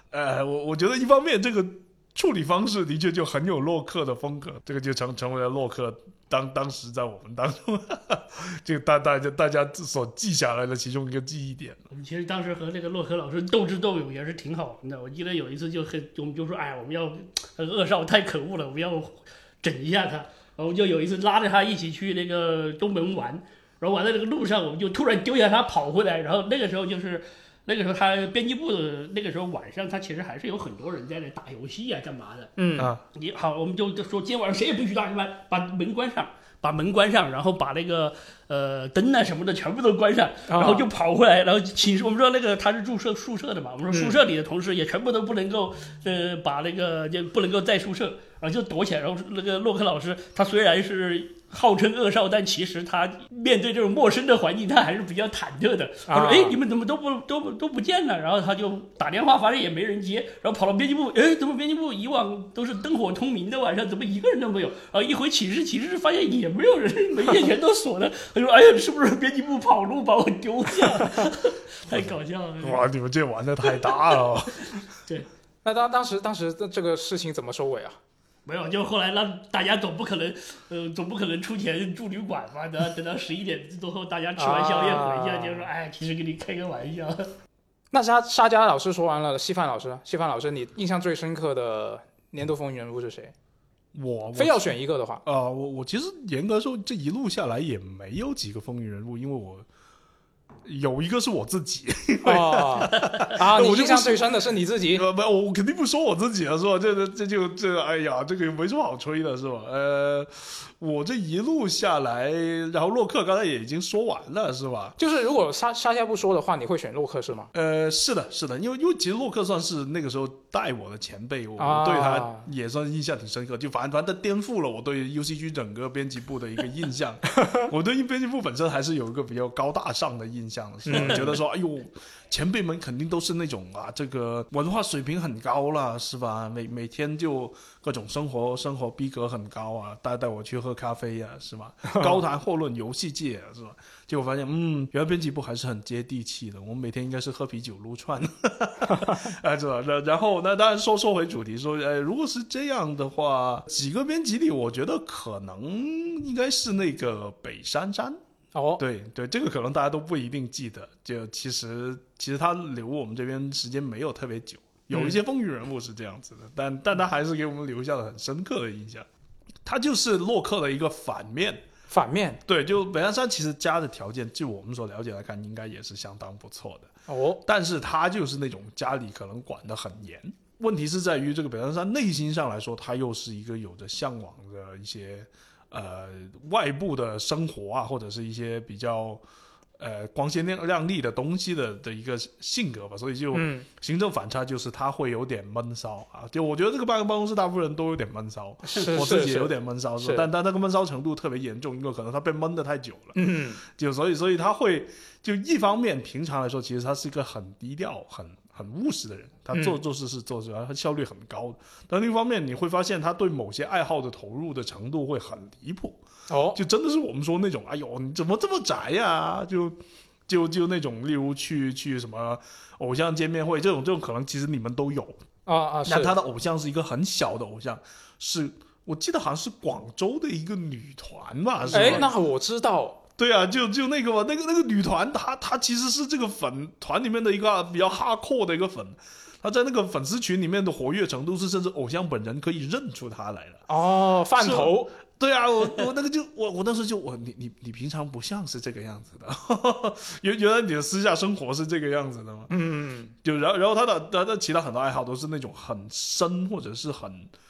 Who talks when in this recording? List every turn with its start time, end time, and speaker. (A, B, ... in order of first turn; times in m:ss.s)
0:00.1-0:11.9 A
0:11.9-0:32.5 B
0:32.6-0:32.9 C
0:32.8-0:33.0 A
0:33.1-1:12.9 B
0:40.5-0:40.9 C
0:43.9-0:44.2 C
0:56.1-0:56.6 C
1:12.6-1:14.7 A
1:15.6-1:18.0 C
1:18.5-1:27.3 B
1:24.4-1:25.7 C
1:27.9-1:33.3 C
1:33.9-1:39.7 A
1:34.4-1:35.2 C
1:40.6-1:44.3 A
1:42.2-1:45.0 C
1:44.9-1:55.0 A
1:55.0-1:57.5 C
1:57.5-2:38.2 A
2:01.6-2:02.5 C
2:10.9-2:11.4 C
2:21.9-2:22.2 C
2:38.6-2:38.8 C
2:38.8-2:49.1 A
2:44.9-2:45.2 C
2:49.6-2:51.6 A
2:51.9-2:52.4 C
2:52.5-2:56.9 A
2:57.1-2:57.4 C
2:57.4-3:09.2 A
3:09.8-3:36.0 A
3:13.3-3:13.7 C
3:18.7-3:20.3 C
3:23.2-3:23.6 C
3:29.5-3:29.8 C
3:36.3-3:36.6 C
3:36.5-3:45.2 A
3:45.5-3:46.2 C
3:45.9-3:52.1 A
3:51.7-3:53.0 C
3:53.2-4:03.6 A
4:03.7-4:04.9 C
4:04.4-4:12.5 A
4:12.5-4:13.1 C
4:13.2-4:17.3 A